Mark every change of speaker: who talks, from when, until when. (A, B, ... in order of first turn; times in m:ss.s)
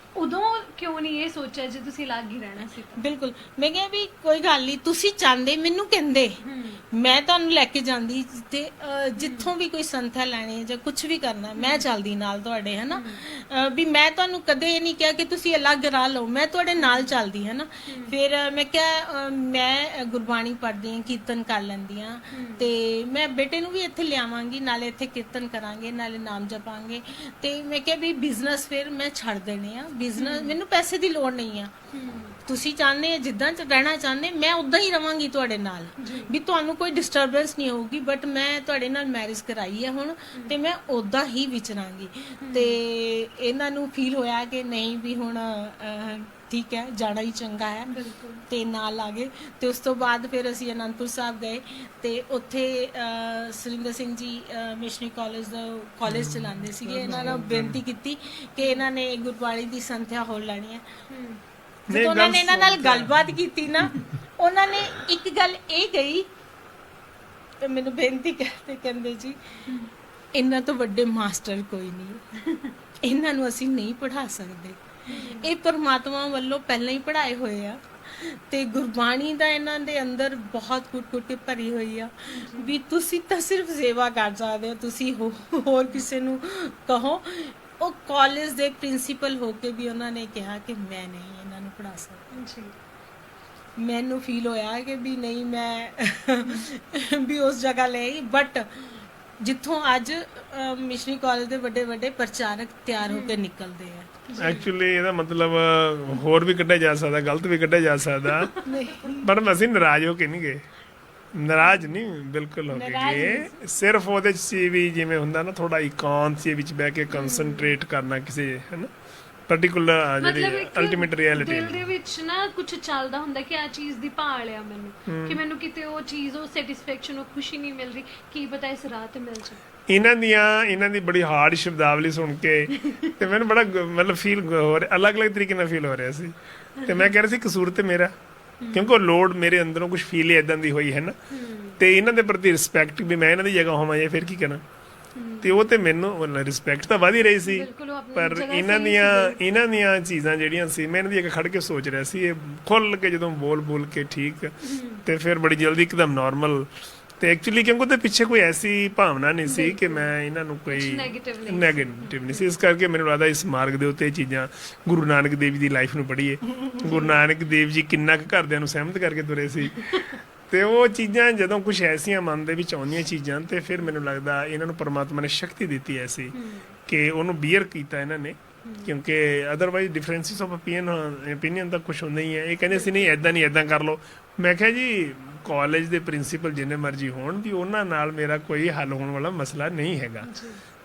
0:00.2-0:03.0 A
0:03.0-0:31.7 B
0:06.4-0:06.8 A
0:09.2-0:09.5 A
0:11.6-0:11.8 A
0:12.9-0:13.2 A
0:16.8-0:17.1 A
0:17.9-0:18.2 A
0:22.3-0:22.7 A
0:30.2-0:30.6 A
0:31.9-0:32.4 A
0:32.5-0:47.9 B
0:36.0-0:36.3 A
0:42.4-0:42.8 A
0:47.9-0:48.4 A
0:48.5-1:00.8 B
0:56.1-0:57.8 C
1:01.1-1:01.4 A
1:01.9-1:03.4 C
1:01.9-1:06.2 B
1:07.6-1:09.4 B
1:10.4-1:32.4 B
1:15.1-1:15.5 A
1:22.3-1:22.7 A
1:32.3-1:32.7 A
1:33.8-1:44.2 B
1:43.0-1:43.4 A
1:44.3-1:44.7 A
1:44.4-1:48.5 C
1:48.6-1:49.3 B
1:49.2-1:50.6 C
1:51.4-1:58.9 C
1:51.6-1:51.9 A
1:52.7-1:53.5 B
1:57.1-1:57.7 A
1:59.5-2:01.8 C
2:00.2-2:09.6 A
2:05.1-2:05.4 C
2:09.9-2:18.1 C
2:12.8-2:13.1 A
2:16.8-2:17.1 A
2:18.6-2:18.9 A
2:18.7-2:21.2 C
2:21.3-2:21.8 A
2:21.8-2:24.6 C
2:25.2-2:25.6 A
2:25.4-2:34.5 C
2:27.4-2:29.4 A
2:34.6-2:35.0 A
2:35.0-2:36.7 C
2:37.2-2:49.9 C
2:39.5-2:40.1 A
2:40.7-2:42.5 A
2:46.8-2:47.1 A
2:49.7-2:50.2 A
2:50.5-2:56.4 C
2:56.3-2:56.8 A
2:56.9-3:10.3 C
2:58.6-2:58.9 A
3:02.7-3:03.2 A
3:10.2-3:10.6 A